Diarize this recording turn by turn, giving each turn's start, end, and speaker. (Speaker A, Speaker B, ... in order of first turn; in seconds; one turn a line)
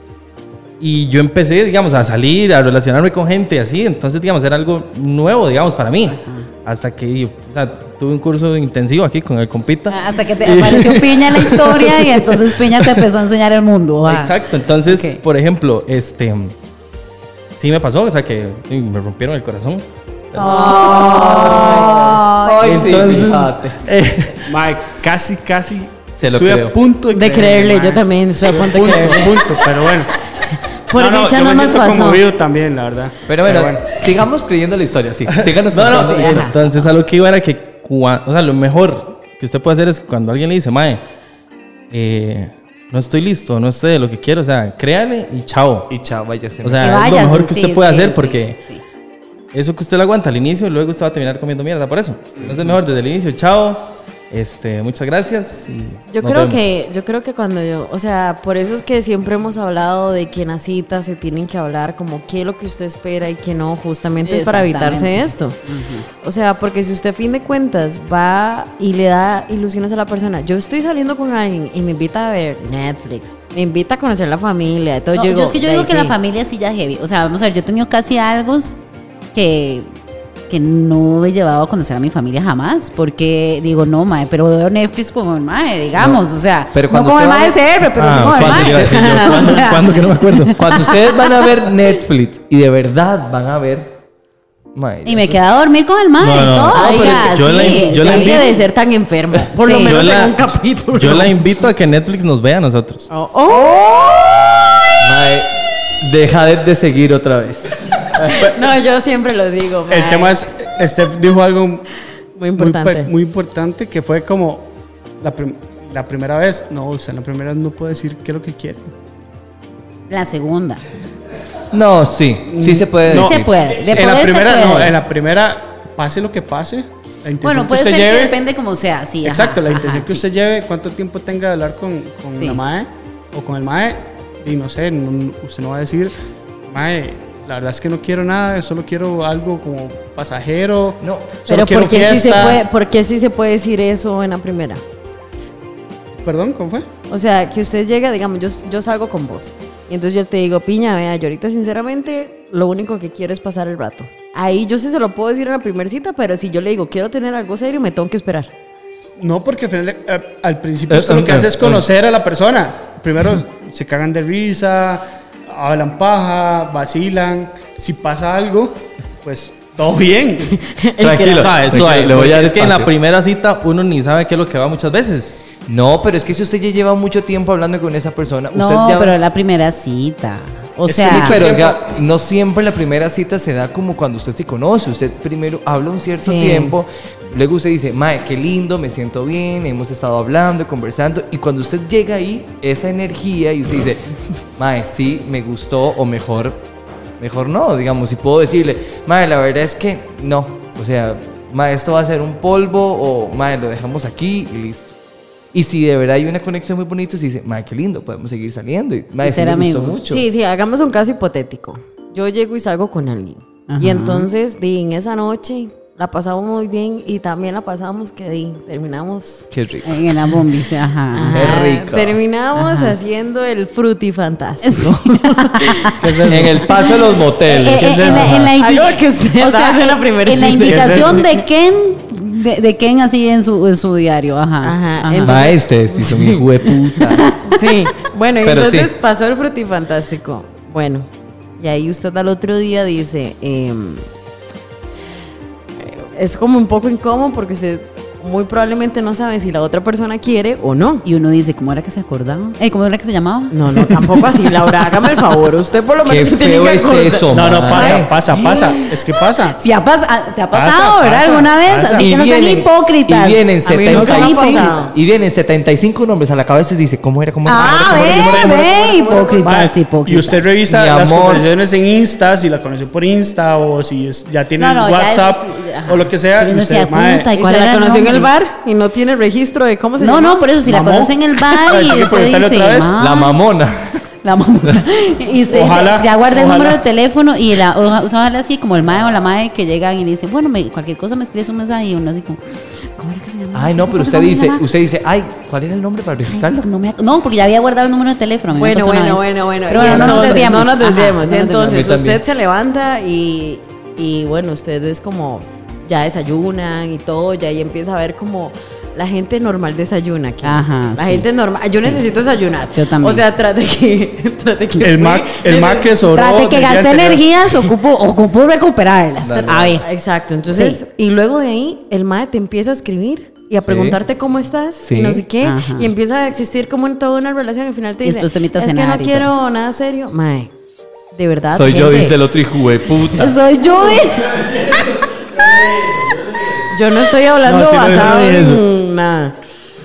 Speaker A: 0.8-13.0
Speaker B: 6.1-6.5
Speaker B: 9.9-14.3
Speaker A: 14.0-16.5
Speaker B: 14.8-15.2
Speaker A: 17.6-20.5
Speaker C: 20.4-22.2
Speaker D: 20.4-23.8
Speaker B: 20.4-23.2
Speaker A: 22.6-24.5
Speaker E: 24.4-30.1
Speaker D: 26.2-26.8
Speaker C: 27.1-29.4
Speaker C: 30.9-32.2
Speaker E: 30.9-33.9
Speaker D: 33.3-36.5
Speaker A: 35.4-41.0
Speaker A: 41.9-45.9
Speaker D: 45.9-47.1
Speaker A: 46.6-48.6
Speaker B: 46.8-48.8
Speaker A: 49.5-56.6
Speaker C: 56.1-65.6
Speaker B: 64.2-66.1
Speaker C: 66.1-76.1
Speaker B: 75.1-78.7
Speaker B: 79.3-79.9
Speaker B: 80.5-90.9
Speaker D: 86.0-86.2
Speaker D: 86.7-89.0
Speaker A: 88.0-90.6
Speaker C: 88.8-89.7
Speaker D: 90.5-93.9
Speaker D: 94.7-95.4
Speaker B: 95.0-98.5
Speaker A: 96.2-98.6
Speaker C: 96.7-101.4
Speaker B: 99.6-99.9
Speaker A: 99.6-103.1
Speaker C: 103.1-104.4
Speaker D: 105.0-108.5
Speaker C: 108.3-110.4
Speaker E: 109.9-111.8
Speaker C: 112.4-113.1
Speaker E: 112.5-118.9
Speaker B: 120.1-120.8
Speaker D: 121.7-123.5
Speaker E: 122.5-128.4
Speaker B: 123.0-124.9
Speaker B: 127.4-130.2
Speaker E: 129.2-142.6
Speaker D: 141.0-141.3
Speaker C: 141.5-144.8
Speaker E: 146.2-146.9
Speaker C: 147.1-158.5
Speaker E: 159.2-170.6
Speaker D: 160.9-161.8
Speaker C: 170.5-171.9
Speaker D: 171.0-172.9
Speaker A: 171.3-175.3
Speaker D: 175.7-179.2
Speaker B: 178.5-181.4
Speaker E: 180.9-181.8
Speaker D: 180.9-196.6
Speaker C: 186.2-186.7
Speaker D: 197.2-204.9
Speaker D: 205.5-210.2
Speaker B: 209.2-210.0
Speaker C: 210.1-219.4
Speaker B: 213.7-214.3
Speaker D: 219.5-220.3
Speaker B: 219.8-221.6
Speaker C: 221.1-226.0
Speaker D: 221.3-222.2
Speaker B: 222.6-222.9
Speaker B: 224.6-226.0
Speaker E: 226.0-226.7
Speaker D: 226.3-228.5
Speaker B: 227.4-235.4
Speaker E: 227.7-228.5
Speaker C: 228.6-231.4
Speaker E: 230.7-231.2
Speaker C: 234.6-244.1
Speaker D: 235.2-237.4
Speaker D: 238.4-238.9
Speaker C: 245.8-251.0
Speaker B: 251.0-254.0
Speaker C: 253.5-258.0
Speaker D: 256.0-258.1
Speaker E: 257.3-259.6
Speaker B: 258.3-258.9
Speaker B: 259.6-264.8
Speaker E: 260.5-262.1
Speaker D: 262.0-268.7
Speaker C: 263.6-264.9
Speaker B: 267.4-270.5
Speaker E: 267.5-277.3
Speaker D: 270.7-271.5
Speaker B: 274.6-278.3
Speaker C: 277.3-280.5
Speaker B: 280.0-283.4
Speaker E: 280.6-282.9
Speaker D: 283.0-284.0
Speaker B: 284.2-292.4
Speaker E: 285.5-286.8
Speaker B: 292.9-294.6
Speaker D: 293.5-296.7
Speaker B: 296.3-301.8
Speaker C: 298.5-315.9
Speaker D: 299.7-300.3
Speaker D: 301.6-302.2
Speaker B: 310.4-311.3
Speaker B: 312.7-313.2
Speaker E: 314.8-317.2
Speaker B: 316.1-319.9
Speaker D: 319.2-319.8
Speaker C: 319.8-330.5
Speaker B: 320.5-320.8
Speaker D: 323.6-324.0
Speaker D: 324.8-325.2
Speaker B: 325.4-325.9
Speaker B: 328.0-329.3
Speaker C: 331.1-332.2
Speaker D: 331.5-333.4
Speaker B: 333.1-334.8
Speaker A: 335.4-336.6
Speaker C: 336.7-339.4
Speaker E: 337.4-338.3
Speaker A: 337.9-338.6